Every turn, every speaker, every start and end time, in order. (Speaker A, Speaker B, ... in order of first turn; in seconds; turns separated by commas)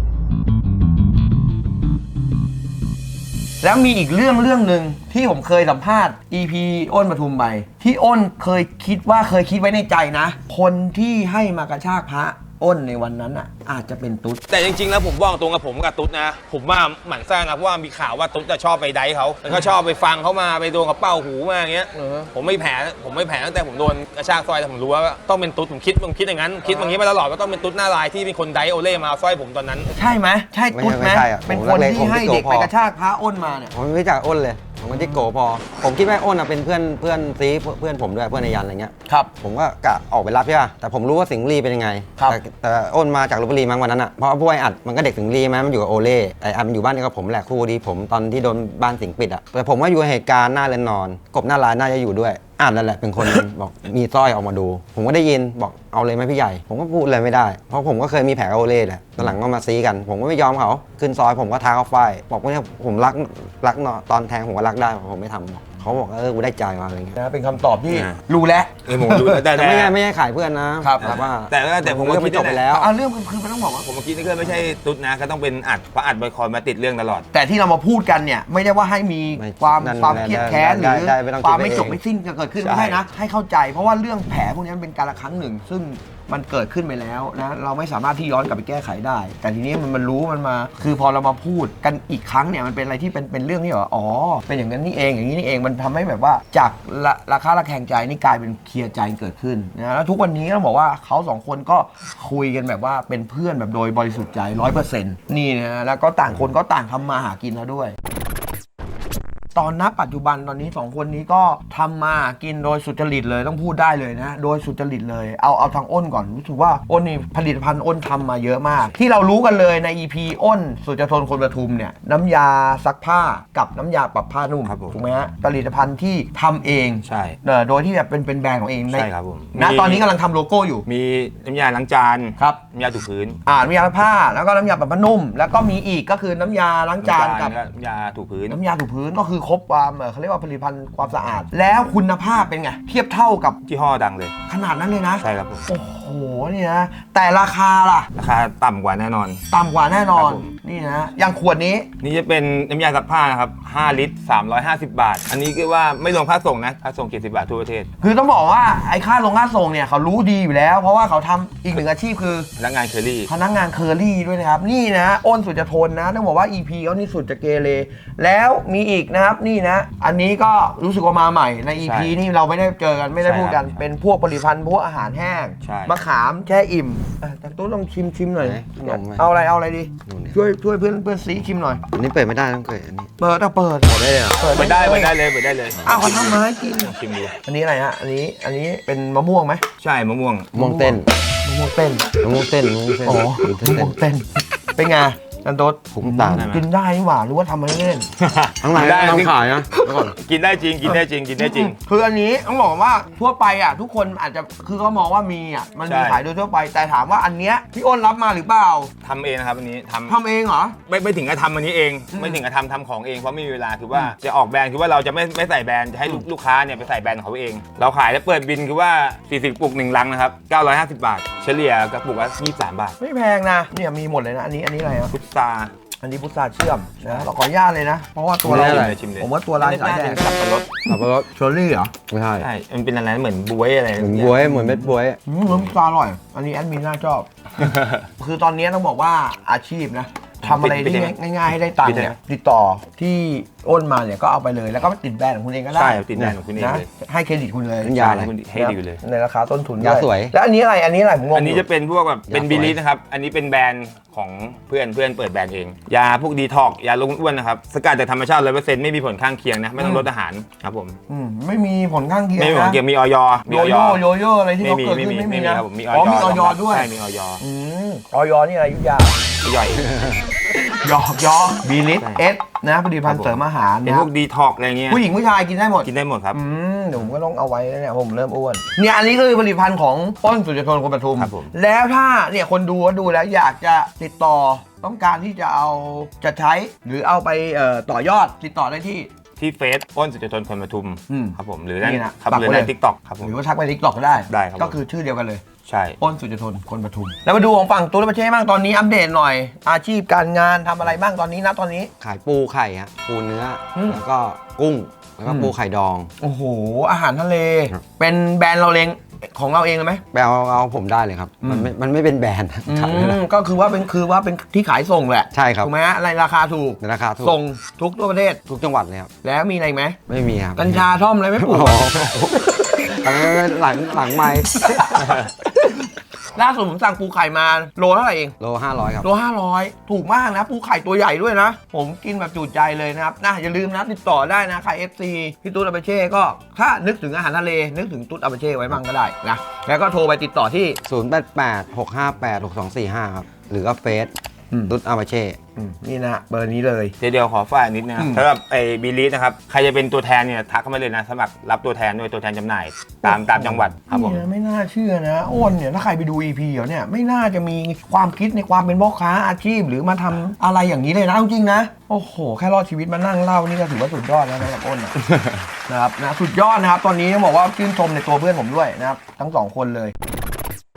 Speaker A: 3.6-14.4, Speaker B: 14.5-30.0, Speaker A: 21.9-22.3, Speaker A: 26.6-27.0, Speaker A: 29.9-33.7, Speaker C: 30.7-32.7, Speaker C: 33.7-67.2, Speaker A: 34.9-35.2, Speaker A: 67.2-69.5, Speaker B: 68.9-69.9, Speaker C: 69.5-72.9, Speaker A: 70.8-71.1, Speaker B: 71.0-72.6, Speaker A: 72.7-73.9, Speaker B: 73.8-77.2, Speaker A: 77.3-108.0, Speaker C: 79.4-82.0, Speaker B: 82.6-83.0, Speaker A: 109.5-130.8, Speaker B: 124.7-125.0, Speaker B: 127.0-127.4, Speaker B: 128.9-130.1, Speaker B: 130.9-133.4, Speaker A: 133.4-137.5, Speaker B: 137.0-138.6, Speaker A: 138.5-143.6, Speaker B: 143.7-144.3, Speaker A: 144.5-148.1, Speaker B: 145.2-145.7, Speaker B: 148.1-149.4, Speaker A: 149.5-151.9, Speaker B: 150.2-150.5, Speaker B: 152.0-157.9, Speaker A: 158.0-162.5, Speaker B: 162.6-163.3, Speaker A: 163.3-181.8, Speaker B: 171.8-172.1, Speaker B: 173.2-173.8, Speaker B: 175.6-175.9, Speaker C: 178.4-179.2, Speaker C: 180.1-180.4, Speaker C: 181.9-183.1, Speaker A: 183.2-185.1, Speaker C: 183.8-184.4, Speaker B: 184.5-187.3, Speaker A: 185.8-186.9, Speaker A: 187.4-189.6, Speaker B: 189.8-190.5, Speaker C: 190.5-191.1, Speaker A: 190.5-192.1, Speaker C: 192.2-194.0, Speaker A: 193.0-198.1, Speaker C: 195.9-196.5, Speaker B: 196.3-196.6, Speaker B: 198.2-199.3, Speaker C: 198.6-200.1, Speaker A: 198.7-200.1, Speaker B: 200.2-201.8, Speaker A: 200.8-208.9, Speaker B: 205.8-206.2, Speaker B: 209.0-210.2, Speaker A: 210.1-210.8, Speaker B: 210.8-222.9, Speaker A: 212.1-212.4, Speaker A: 223.0-225.1, Speaker B: 225.1-225.7, Speaker A: 226.0-230.3, Speaker B: 228.4-230.7, Speaker C: 228.5-228.9, Speaker A: 230.8-231.9, Speaker C: 230.9-231.3, Speaker C: 232.1-232.5, Speaker B: 232.4-234.4, Speaker C: 234.0-235.2, Speaker A: 234.4-251.6, Speaker B: 237.6-238.1, Speaker B: 240.4-241.1, Speaker B: 241.8-242.1, Speaker B: 245.7-246.8, Speaker C: 247.8-248.3, Speaker B: 247.9-249.0, Speaker C: 249.8-250.3, Speaker B: 251.3-261.0, Speaker C: 252.3-252.8, Speaker A: 259.8-260.0, Speaker A: 261.1-262.8, Speaker B: 262.4-264.0, Speaker A: 263.5-266.9, Speaker B: 264.6-267.4, Speaker A: 267.4-269.2, Speaker B: 269.4-269.9, Speaker A: 270.6-274.1, Speaker B: 273.1-275.0, Speaker A: 274.9-289.1, Speaker B: 275.8-276.4, Speaker B: 281.2-281.5, Speaker B: 289.4-293.3, Speaker A: 291.1-292.7, Speaker A: 293.2-295.4, Speaker B: 294.3-294.8, Speaker B: 295.7-296.0, Speaker A: 296.0-301.9, Speaker C: 302.0-306.1, Speaker A: 303.7-304.0, Speaker A: 305.2-305.5, Speaker A: 306.2-310.0, Speaker C: 310.1-313.2, Speaker A: 311.4-311.7, Speaker A: 312.7-318.4, Speaker C: 315.3-315.7, Speaker C: 316.8-317.4, Speaker C: 318.4-319.1, Speaker A: 319.2-320.0, Speaker C: 320.1-320.9, Speaker A: 320.6-323.0, Speaker C: 321.4-325.2, Speaker A: 324.2-328.4, Speaker C: 328.4-329.1, Speaker A: 329.0-340.8, Speaker C: 340.8-344.1, Speaker C: 344.7-345.4, Speaker A: 345.6-346.9, Speaker B: 347.0-354.2, Speaker A: 348.0-348.2, Speaker A: 353.0-365.0, Speaker B: 365.1-365.4, Speaker A: 365.7-369.9